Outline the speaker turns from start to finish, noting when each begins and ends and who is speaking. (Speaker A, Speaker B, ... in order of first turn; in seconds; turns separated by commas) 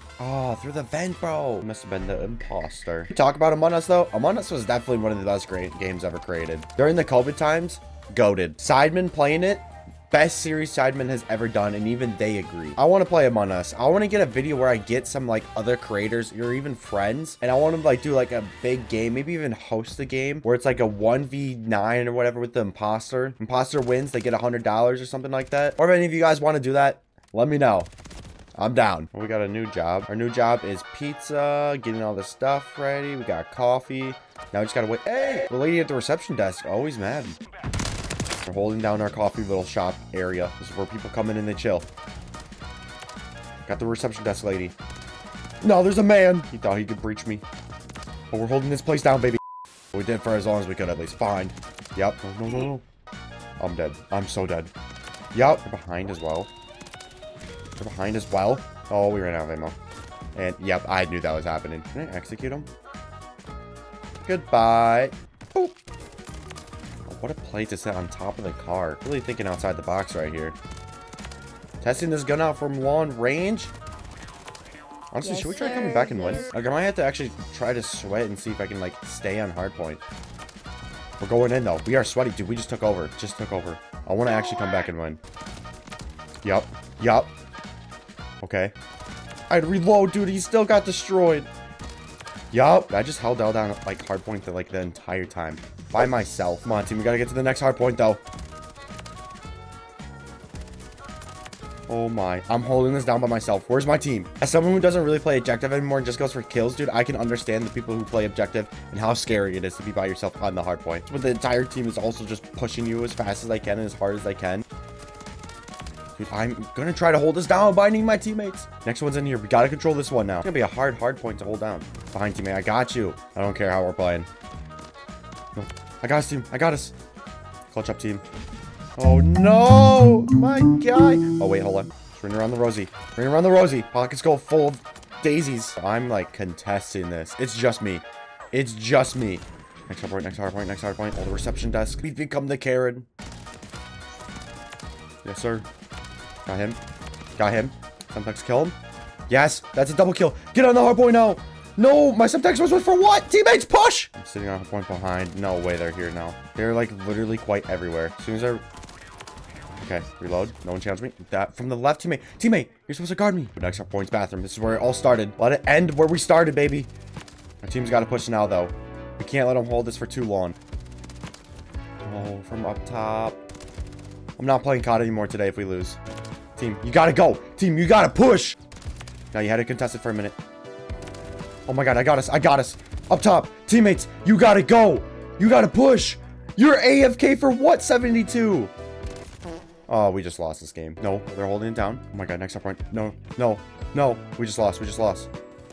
Speaker A: 0.2-27.9, Speaker A: 28.6-37.4, Speaker A: 38.4-41.9, Speaker A: 43.6-44.7, Speaker A: 45.6-47.4, Speaker A: 48.3-49.4, Speaker A: 49.9-52.8, Speaker A: 53.6-54.7, Speaker A: 55.3-56.5, Speaker A: 57.8-59.8, Speaker A: 60.3-62.7, Speaker A: 64.2-65.8, Speaker A: 67.0-70.5, Speaker A: 71.8-73.7, Speaker A: 75.1-80.0, Speaker A: 81.2-85.2, Speaker A: 86.4-87.3, Speaker A: 88.4-88.7, Speaker A: 89.5-91.5, Speaker A: 92.5-98.2, Speaker A: 101.9-114.6, Speaker A: 116.2-124.3, Speaker A: 125.5-126.9, Speaker A: 127.7-128.2, Speaker A: 129.0-143.1, Speaker A: 145.2-145.7, Speaker A: 146.4-146.8, Speaker A: 147.4-148.8, Speaker A: 149.3-158.6, Speaker A: 159.8-166.9, Speaker A: 167.6-170.6, Speaker A: 172.0-173.4, Speaker A: 174.4-176.0, Speaker A: 176.6-178.6, Speaker A: 179.3-180.4, Speaker A: 181.7-188.7, Speaker A: 189.9-195.3